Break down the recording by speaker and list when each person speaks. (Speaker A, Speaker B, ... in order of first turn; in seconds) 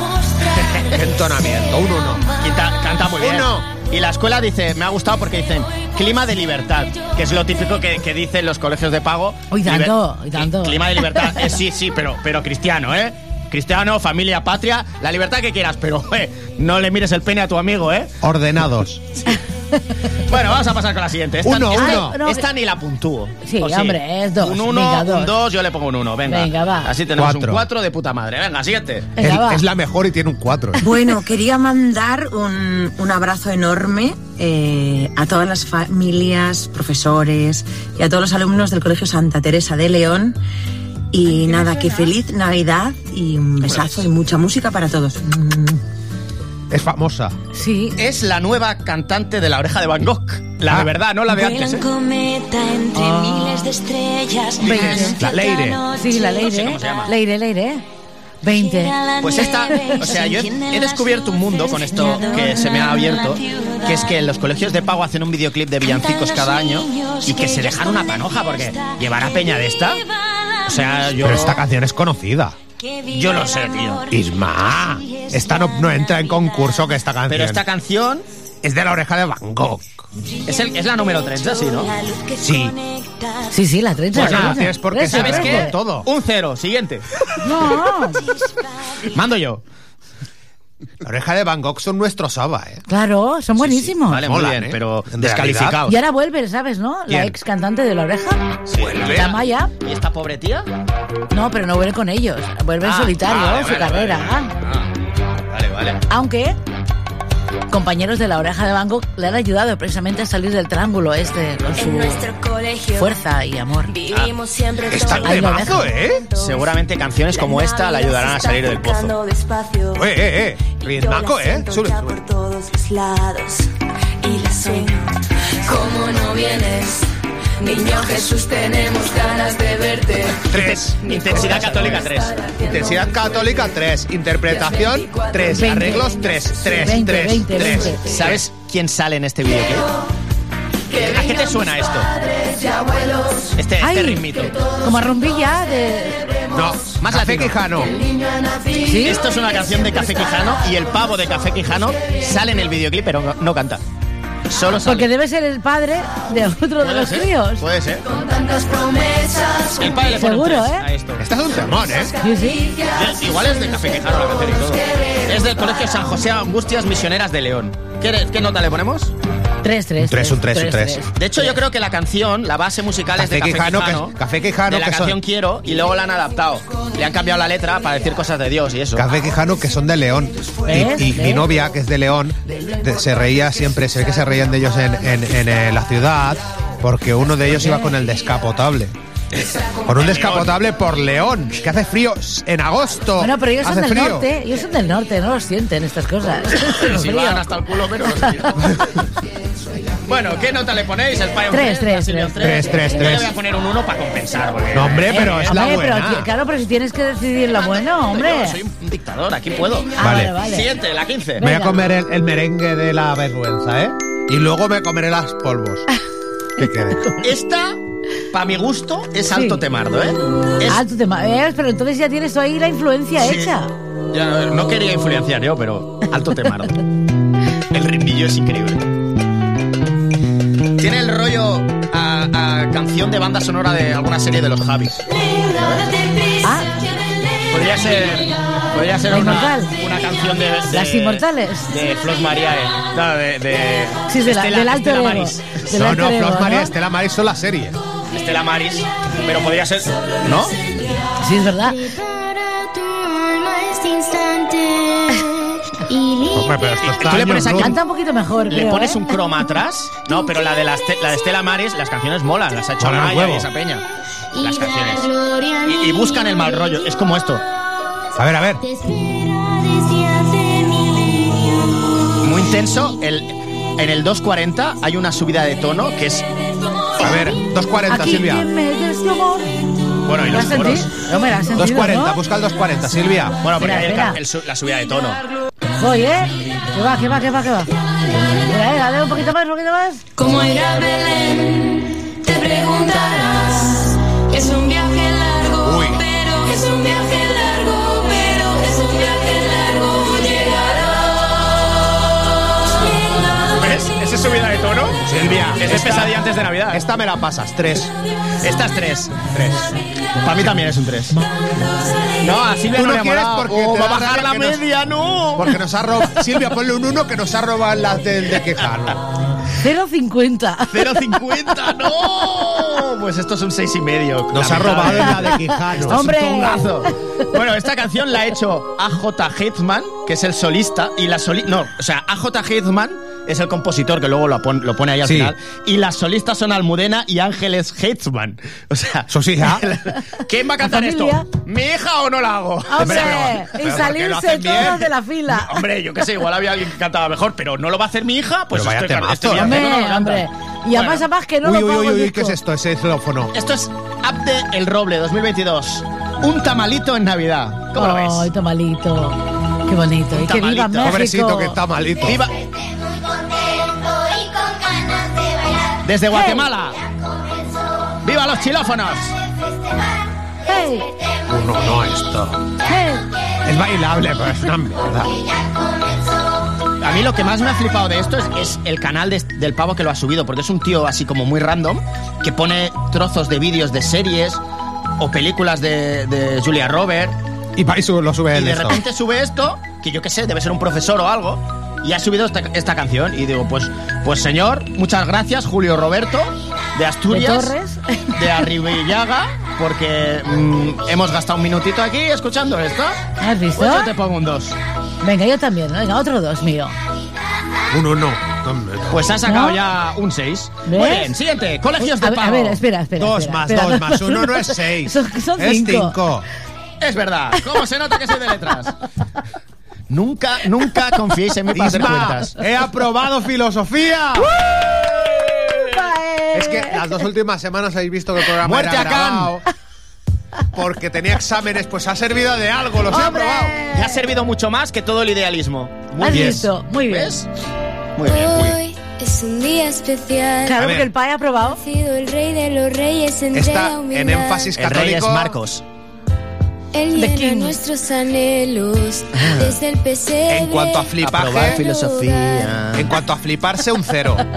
Speaker A: 0.7-1.0, 2.4-18.1, 20.3-29.1, 43.6-44.0, 48.0-51.9, 54.6-55.2, 56.4-57.1, 59.2-70.0, 70.6-71.6, 73.1-74.1, 77.3-78.2, 80.5-81.9, 84.1-87.0, 89.1-89.6, 93.6-96.0, 98.7-100.7, 102.8-104.9, 105.5-106.0, 116.3-119.1, 130.5-132.5, 137.5-139.9, 140.9-142.1, 143.5-144.6, 147.0-147.6, 149.0-153.8, 154.5-155.1, 156.8-158.0, 159.8-161.2, 162.9-169.1, 171.1-174.2, 174.7-179.0, 189.3-190.5, 196.5-198.8, 200.1-205.6, 207.6-211.4, 217.2-217.8, 218.3-220.8, 223.2-223.5, 224.1-226.8, 227.7-228.8, 230.8-236.0, 237.5-245.6, 248.1-250.6, 256.8-257.8, 258.5-263.8, 264.4-265.1, 265.6-267.4, 272.2-276.2, 280.1-280.9, 283.4-285.2, 303.5-306.8, 308.4-309.2, 310.2-311.2, 312.2-315.6, 320.7-343.4, 345.3-351.0, 353.3-358.3, 360.1-361.0, 362.0-362.3, 365.8-366.8, 368.0-369.1, 376.8-384.4, 385.0-387.2, 388.3-397.5, 398.1-403.0, 403.6-404.6, 408.9-412.6, 416.8-418.7, 419.9-422.4, 428.4-429.3, 433.7-437.3, 438.0-438.5, 444.6-445.6, 449.1-449.5, 451.0-452.9
Speaker B: 0.8-2.3, 3.1-3.7, 18.2-19.0, 21.4-22.2, 27.1-27.6, 29.2-30.8, 46.7-47.4, 50.7-50.9, 55.2-55.8, 71.2-72.5, 74.1-77.6, 78.6-80.0, 82.4-82.8, 84.1-86.1, 91.0-92.8, 94.2-95.8, 98.8-99.3, 114.9-116.2, 120.0-122.2, 130.5-132.1, 132.6-138.4, 146.5-147.9, 161.2-162.1, 170.0-171.0, 173.2-175.2, 178.9-188.9, 189.8-194.2, 202.4-203.3, 204.7-206.3, 210.0-210.3, 211.4-215.8, 216.6-217.1, 245.7-247.8, 256.3-257.7, 262.8-263.5, 268.1-268.6, 277.0-278.4, 281.6-283.4, 295.6-296.0, 305.0-307.9, 309.3-309.7, 312.7-314.6, 315.4-319.0, 324.3-326.0, 335.0-335.3, 339.1-339.6, 342.8-344.9, 348.5-349.7, 351.4-353.3, 360.8-362.2, 371.3-372.4, 373.4-375.1, 387.6-388.8, 407.7-409.1, 413.0-416.2, 421.5-424.3, 426.3-429.4, 430.5-433.5, 436.1-436.5, 440.6-440.9, 443.3-445.4, 450.3-451.6, 452.7-454.2
Speaker C: 9.5-11.5, 21.7-22.4, 23.4-25.3, 26.3-26.9, 29.2-29.6, 47.5-48.0, 52.9-53.7, 54.6-55.2, 55.8-57.8, 58.4-59.0, 59.7-60.0, 83.5-85.7, 87.4-88.3, 92.9-94.2, 95.8-98.4, 99.0-99.7, 101.3-104.5, 106.1-106.6, 107.7-112.2, 112.9-113.9, 115.2-115.9, 135.5-136.1, 136.7-138.1, 143.8-146.3, 148.8-149.2, 154.8-157.6, 160.0-160.8, 162.2-162.7, 169.6-171.5, 180.7-181.5, 187.5-187.9, 193.2-197.4, 201.5-202.9, 205.1-208.6, 210.0-210.7, 211.4-211.8, 219.3-219.6, 220.7-223.7, 236.4-236.7, 239.1-239.7, 240.7-241.7, 244.1-246.7, 251.2-251.8, 257.6-259.2, 277.9-279.5, 280.2-282.2, 283.6-284.2, 285.8-287.7, 288.3-290.0, 319.6-321.2, 325.1-326.9, 340.6-341.2, 342.7-345.6, 349.3-352.4, 357.8-361.6, 366.1-366.5, 370.4-370.9, 372.6-373.0, 397.1-398.5, 403.2-403.9, 405.0-406.8, 409.2-409.6, 410.6-411.1, 411.8-416.0, 425.6-427.0, 432.9-434.0, 436.0-437.1, 440.4-441.6, 446.9-447.6
Speaker D: 30.8-40.4, 41.1-45.8
Speaker E: 51.4-56.4, 58.6-61.7, 62.9-63.8, 67.0-68.2, 111.7-113.2, 113.8-123.7, 124.2-127.0, 127.6-133.3, 134.6-135.5, 136.1-136.5, 142.2-143.5, 158.2-159.7, 290.1-301.2
Speaker F: 251.6-256.7, 264.3-266.9, 268.6-272.1, 362.7-365.7, 366.8-367.5, 438.0-440.6, 441.5-444.5, 446.7-450.9, 451.5-452.6